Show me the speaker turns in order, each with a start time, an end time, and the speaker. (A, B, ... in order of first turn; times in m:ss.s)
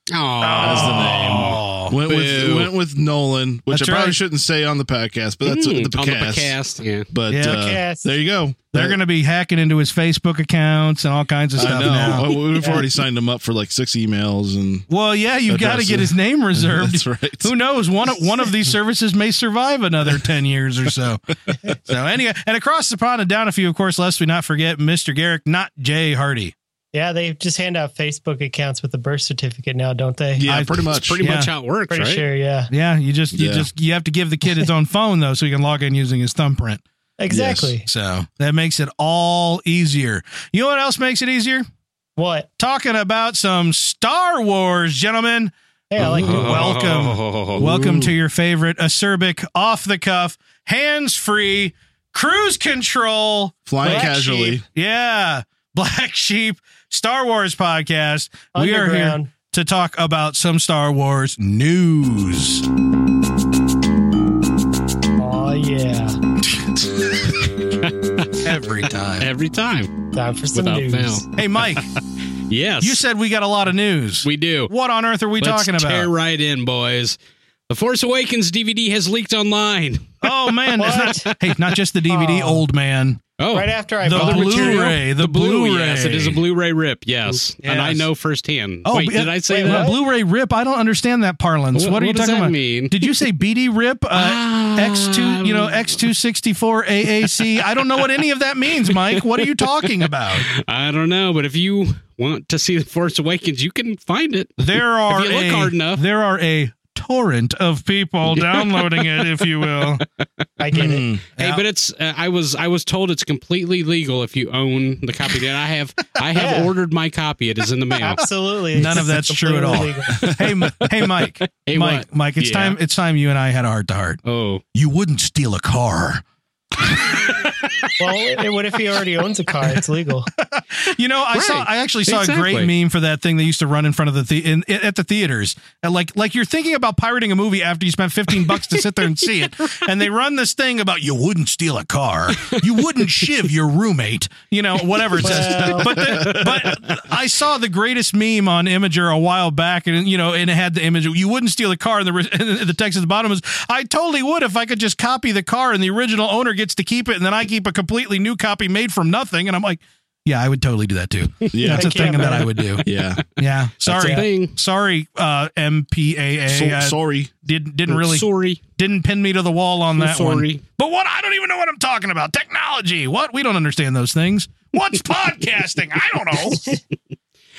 0:00.1-0:02.7 A
0:00.4-0:02.0 B
0:00.5-0:06.5 C
0:03.7-0:04.2 B
0:05.4-0:07.1 A
0:07.1-0:09.0 C
0:07.3-0:07.7 B
0:07.4-0:08.2 D
0:08.7-0:12.3 B
0:11.6-0:14.8 C
0:12.0-0:12.9 D
0:14.9-0:26.5 B
0:15.5-0:17.5 C
0:26.9-0:30.5 D
0:30.4-0:31.2 C
0:30.4-0:31.5 B
0:30.9-0:32.2 A
0:31.9-0:32.7 D
0:32.7-0:36.8 B
0:33.3-0:33.7 C
0:37.2-0:37.9 D
0:37.3-0:37.7 C
0:37.8-0:41.6 B
0:42.2-0:42.5 D
0:42.6-0:54.1 B
0:45.9-0:46.8 D
0:46.1-0:47.7 A
0:47.6-0:48.1 C
0:53.6-0:54.6 C
0:53.8-0:54.6 D
0:54.7-1:02.7 B
0:58.5-0:59.3 D
1:05.2-1:06.2 D
1:06.4-1:07.3 B
1:07.4-1:08.5 A
1:08.4-1:09.3 B
1:09.2-1:11.9 A
1:10.1-1:11.2 D
1:11.4-1:11.8 B
1:12.5-1:13.0 A
1:12.8-1:16.1 B
1:14.2-1:14.7 A
1:15.4-1:17.2 A
1:17.7-1:21.7 A
1:20.2-1:23.2 B
1:20.8-1:21.3 D
1:22.1-1:22.6 D
1:23.4-1:29.9 A
1:23.5-1:25.0 D
1:24.0-1:26.4 B
1:27.6-1:28.1 B
1:28.8-1:40.5 B
1:29.5-1:30.0 D
1:31.7-1:33.2 A
1:34.1-1:36.1 A
1:37.3-1:38.0 A
1:38.8-1:46.0 A
1:44.6-1:50.0 B
1:48.3-1:50.0 A
1:50.6-1:51.1 D
1:50.7-1:51.6 B
1:51.4-1:58.2 A
1:56.3-1:56.7 D
1:58.0-2:00.3 D
1:58.7-2:04.2 B
2:00.2-2:02.8 A
2:04.2-2:04.6 A
2:04.7-2:06.2 B
2:06.8-2:07.1 B
2:07.4-2:07.9 A
2:08.0-2:10.3 D
2:10.4-2:42.8 B
2:11.3-2:12.7 A
2:18.4-2:18.8 A
2:22.4-2:22.6 A
2:25.2-2:26.9 A
2:25.2-2:26.4 D
2:41.5-2:43.2 C
2:41.7-2:42.5 D
2:42.5-2:43.1 A
2:43.4-2:56.6 B
2:43.8-2:44.5 A
2:46.5-2:47.3 C
2:47.9-2:48.6 A
2:50.0-2:50.6 A